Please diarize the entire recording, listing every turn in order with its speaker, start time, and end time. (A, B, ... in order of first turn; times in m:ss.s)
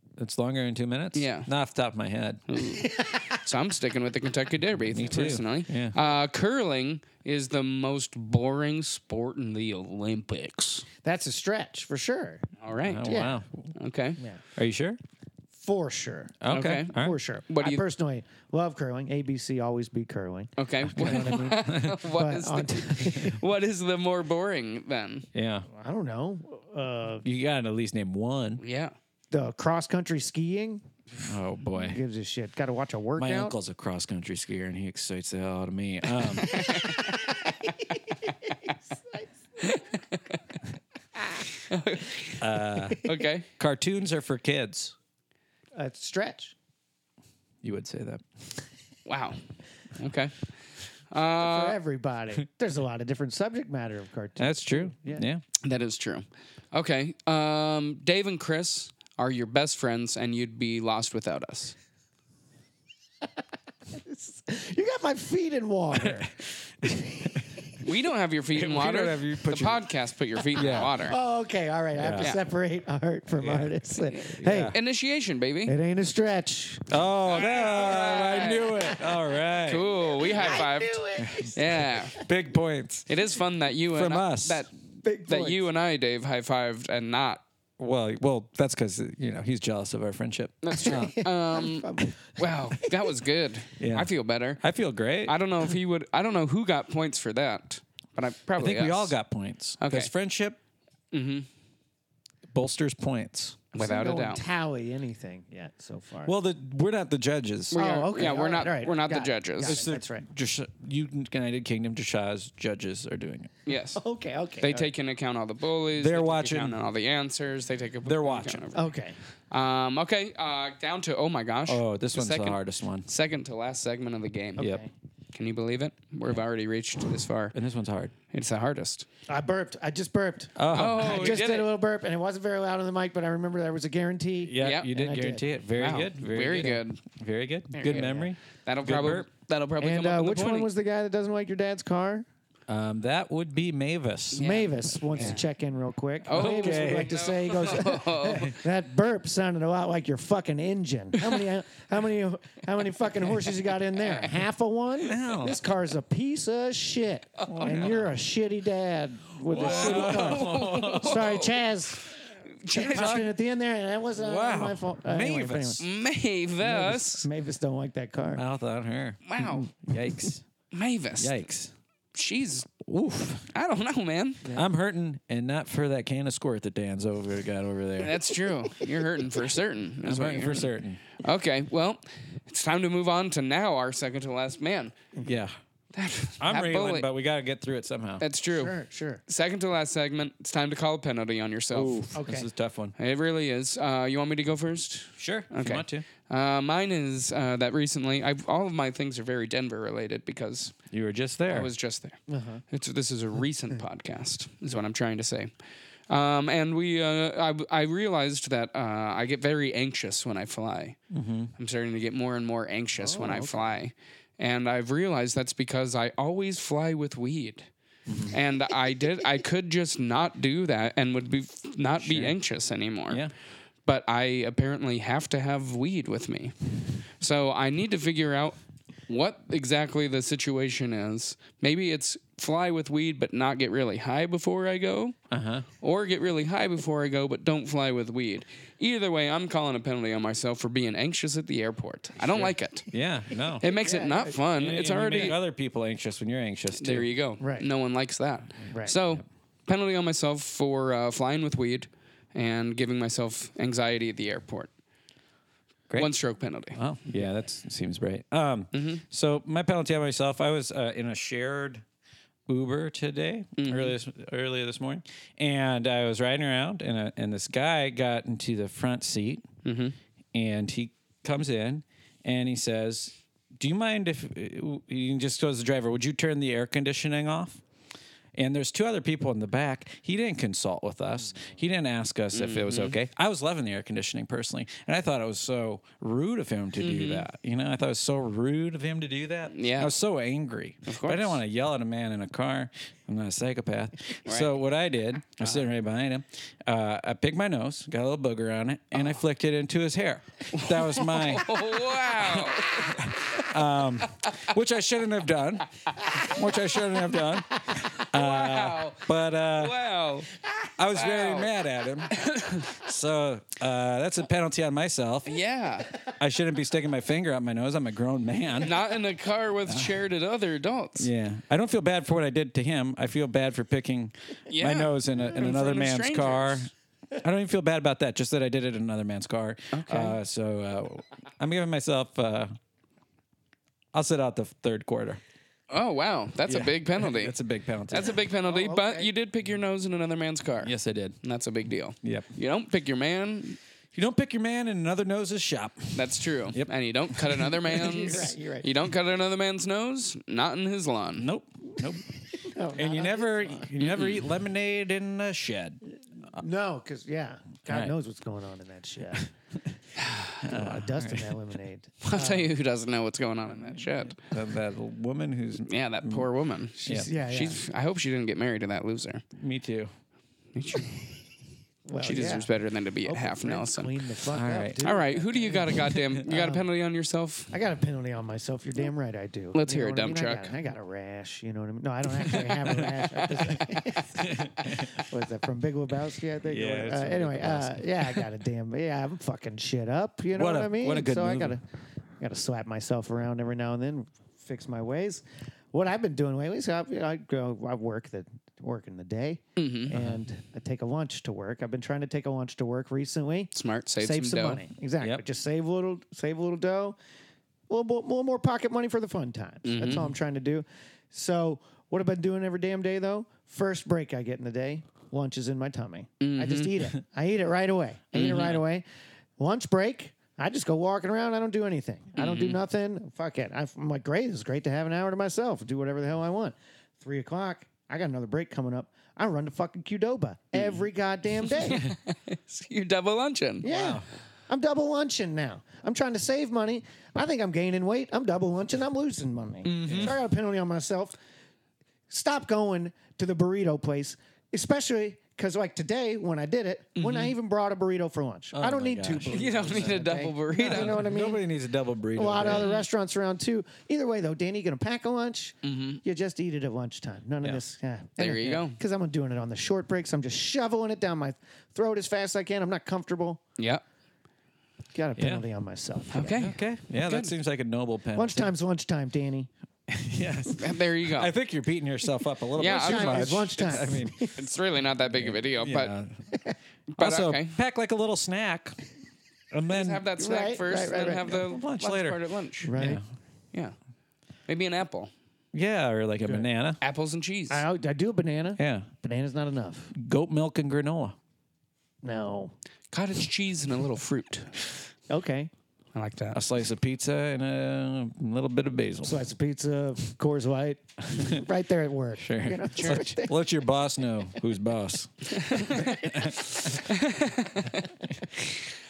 0:00.2-0:02.4 A
0:01.2-0:01.5 B
0:02.5-0:10.9 B
0:04.9-0:06.0 A
0:11.0-0:12.4 C
0:12.6-0:13.1 B
0:12.8-0:13.7 A
0:13.0-0:13.4 C
0:13.8-0:14.2 B
0:14.6-0:15.0 A
0:15.5-0:16.4 C
0:16.4-0:17.2 A
0:16.5-0:17.8 B
0:16.9-0:23.4 C
0:20.6-0:25.3 B
0:21.0-0:22.0 A
0:25.3-0:25.7 A
0:25.7-0:27.3 C
0:27.2-0:28.6 A
0:28.6-0:28.9 B
0:29.3-0:30.8 C
0:31.2-0:32.0 A
0:31.8-0:33.6 C
0:33.2-0:36.7 A
0:36.5-0:37.0 B
0:36.5-0:37.7 C
0:38.9-0:39.8 C
0:39.6-0:40.0 B
0:41.7-0:42.4 B
0:42.4-0:43.0 A
0:43.0-0:43.5 B
0:43.6-0:45.0 A
0:45.8-0:46.6 C
0:47.6-0:48.3 A
0:49.1-0:49.4 B
0:50.0-0:50.3 B
0:51.1-0:51.8 B
0:51.4-0:55.2 C
0:54.4-0:55.4 A
0:55.6-1:01.8 B
1:03.9-1:06.3 C
1:05.9-1:07.4 A
1:06.9-1:07.4 C
1:07.8-1:11.2 B
1:08.6-1:09.8 A
1:10.5-1:10.9 A
1:10.6-1:14.8 C
1:12.0-1:12.3 A
1:13.4-1:13.7 A
1:14.1-1:15.7 B
1:14.4-1:14.8 A
1:15.7-1:18.8 C
1:16.9-1:19.9 A
1:17.3-1:18.9 B
1:19.6-1:22.2 B
1:20.0-1:21.8 C
1:21.2-1:23.1 A
1:23.1-1:27.4 B
1:23.9-1:24.7 A
1:25.0-1:25.6 C
1:27.8-1:31.2 A
1:30.6-1:34.6 B
1:30.8-1:32.9 C
1:33.8-1:35.3 A
1:35.2-1:39.2 B
1:38.6-1:40.6 A
1:39.8-1:40.1 B
1:41.1-1:41.5 B
1:42.5-1:43.6 A
1:43.8-1:44.4 B
1:43.8-1:46.3 C
1:46.2-1:47.8 A
1:47.7-1:49.8 B
1:47.7-1:50.3 C
1:49.6-1:53.5 A
1:53.7-1:54.0 B
1:54.0-1:54.9 C
1:54.6-1:58.9 B
1:56.0-1:56.8 A
1:58.0-1:58.6 A
1:58.7-1:59.2 C
1:59.5-2:04.7 B
2:01.7-2:03.1 A
2:04.6-2:04.9 C
2:05.3-2:07.6 B
2:07.5-2:08.1 A
2:08.3-2:09.1 B
2:09.3-2:15.4 C
2:10.6-2:11.4 A
2:10.7-2:11.8 B
2:14.4-2:19.3 A
2:14.6-2:14.9 B
2:15.8-2:17.0 B
2:17.7-2:20.7 B
2:19.8-2:22.3 C
2:22.7-2:24.5 A
2:24.4-2:25.4 B
2:24.4-2:42.2 C
2:26.2-2:28.6 B
2:26.3-2:27.2 A
2:35.0-2:35.6 A
2:37.4-2:37.9 B
2:37.5-2:38.1 A
2:39.5-2:41.4 A
2:39.6-2:41.7 B
2:42.6-2:43.3 B
2:42.7-2:45.8 C
2:42.9-2:43.3 A
2:44.2-2:45.8 A
2:45.8-2:47.3 B
2:46.6-2:48.4 C
2:48.4-2:50.4 A
2:49.3-2:49.7 B
2:50.7-2:51.4 B
2:51.2-2:51.7 A
2:52.1-2:52.8 B
2:52.8-2:53.5 A
2:53.5-2:54.4 B
2:54.6-2:58.3 A
2:58.0-3:05.0 B
3:00.0-3:01.0 A
3:05.2-3:05.6 A
3:05.9-3:07.1 B
3:06.4-3:08.2 A
3:08.2-3:08.8 B
3:08.6-3:09.2 C
3:09.3-3:12.1 B
3:11.7-3:12.9 A
3:12.2-3:12.5 C
3:13.0-3:20.8 B
3:15.2-3:16.1 A
3:20.9-3:21.7 A
3:21.5-3:25.5 B
3:22.3-3:22.6 C
3:26.1-3:31.0 B
3:31.1-3:31.5 A
3:31.6-3:37.7 B
3:33.0-3:33.7 C
3:38.1-3:38.4 A
3:38.3-3:43.3 B
3:42.0-3:42.4 A
3:43.9-3:46.5 B
3:47.2-3:48.6 B
3:49.1-3:55.2 B
3:55.3-3:55.7 A
3:55.8-4:02.9 B
4:02.3-4:03.6 A
4:03.6-4:05.4 B
4:03.6-4:04.4 C
4:04.6-4:07.1 A
4:06.8-4:14.7 B
4:07.4-4:07.7 C
4:16.0-4:16.8 B
4:16.7-4:21.8 A
4:18.7-4:19.0 B
4:22.5-4:29.4 A
4:23.6-4:24.0 B
4:29.6-4:30.0 B
4:30.3-4:37.6 A
4:38.4-5:09.8 A
4:42.3-4:43.0 B
4:46.8-4:47.3 B
4:49.5-4:50.0 B
4:50.9-4:51.4 B
4:54.2-4:54.5 B
5:00.5-5:03.5 B
5:08.0-5:10.3 B
5:10.8-5:15.4 A
5:10.9-5:11.5 B
5:12.1-5:12.8 B
5:15.3-5:15.9 B
5:16.2-5:18.8 A
5:18.6-5:21.1 B
5:19.7-5:20.0 A
5:21.0-5:32.6 A
5:24.5-5:26.7 B
5:29.7-5:30.2 B
5:33.9-5:35.2 A
5:35.7-5:37.4 B
5:36.5-5:38.2 A
5:37.9-5:43.6 B
5:38.4-5:39.1 C
5:40.6-5:41.2 A
5:42.0-5:42.3 A
5:43.9-5:47.5 A
5:46.0-5:51.3 B
5:47.7-5:48.7 C
5:51.2-5:52.0 A
5:52.4-5:53.7 C
5:52.7-5:55.8 A
5:53.8-5:54.2 B
5:56.2-5:59.3 C
5:57.7-5:58.0 A
6:00.0-6:00.4 B
6:00.3-6:01.5 A
6:00.4-6:02.5 C
6:02.0-6:04.2 B
6:04.2-6:06.3 A
6:05.7-6:09.2 B
6:06.8-6:07.6 C
6:09.4-6:09.9 A
6:10.6-6:11.0 B
6:11.9-6:12.5 C
6:12.0-6:14.0 B
6:13.1-6:16.6 C
6:14.3-6:14.8 A
6:14.8-6:17.5 B
6:17.5-6:31.6 C
6:19.5-6:20.5 B
6:22.7-6:23.6 A
6:24.2-6:24.9 A
6:26.5-6:27.9 A
6:30.3-6:31.6 A
6:32.2-6:47.0 C
6:39.6-6:39.9 B
6:43.5-6:44.6 B
6:47.7-6:58.8 C
6:49.6-6:50.1 B
6:56.2-6:56.9 B
6:58.1-6:58.6 B
6:59.4-7:11.9 C
7:02.2-7:02.6 B
7:11.5-7:13.6 B
7:13.6-7:21.2 C
7:13.6-7:14.0 A
7:19.6-7:20.2 B
7:19.9-7:20.1 A
7:22.1-7:31.4 C
7:27.0-7:27.3 B
7:28.5-7:29.9 A
7:29.3-7:31.1 B
7:30.6-7:32.7 A
7:32.2-7:43.4 C
7:32.4-7:32.9 B
7:35.6-7:36.0 B
7:38.2-7:38.8 B
7:44.9-7:46.4 C
7:45.2-7:45.4 A
7:46.1-7:47.3 B
7:46.4-7:48.5 A
7:48.2-7:49.5 C
7:49.9-7:54.5 A
7:50.6-7:51.3 B
7:52.6-7:55.9 B
7:52.6-7:54.4 C
7:55.1-7:56.3 A
7:56.9-7:57.5 B
7:57.0-7:58.8 A
7:59.5-8:00.0 A
7:59.7-8:02.7 B
8:00.2-8:01.4 C
8:01.4-8:02.2 A
8:02.6-8:03.0 C
8:02.8-8:03.0 A
8:04.5-8:05.1 B
8:05.5-8:06.8 A
8:06.8-8:07.6 B
8:07.5-8:09.9 C
8:08.6-8:08.9 A
8:10.0-8:11.2 A
8:12.0-8:12.5 C
8:12.9-8:14.5 B
8:15.1-8:15.5 C
8:15.9-8:16.4 B
8:16.3-8:19.2 A
8:19.0-8:23.4 C
8:22.2-8:26.8 A
8:25.4-8:28.5 B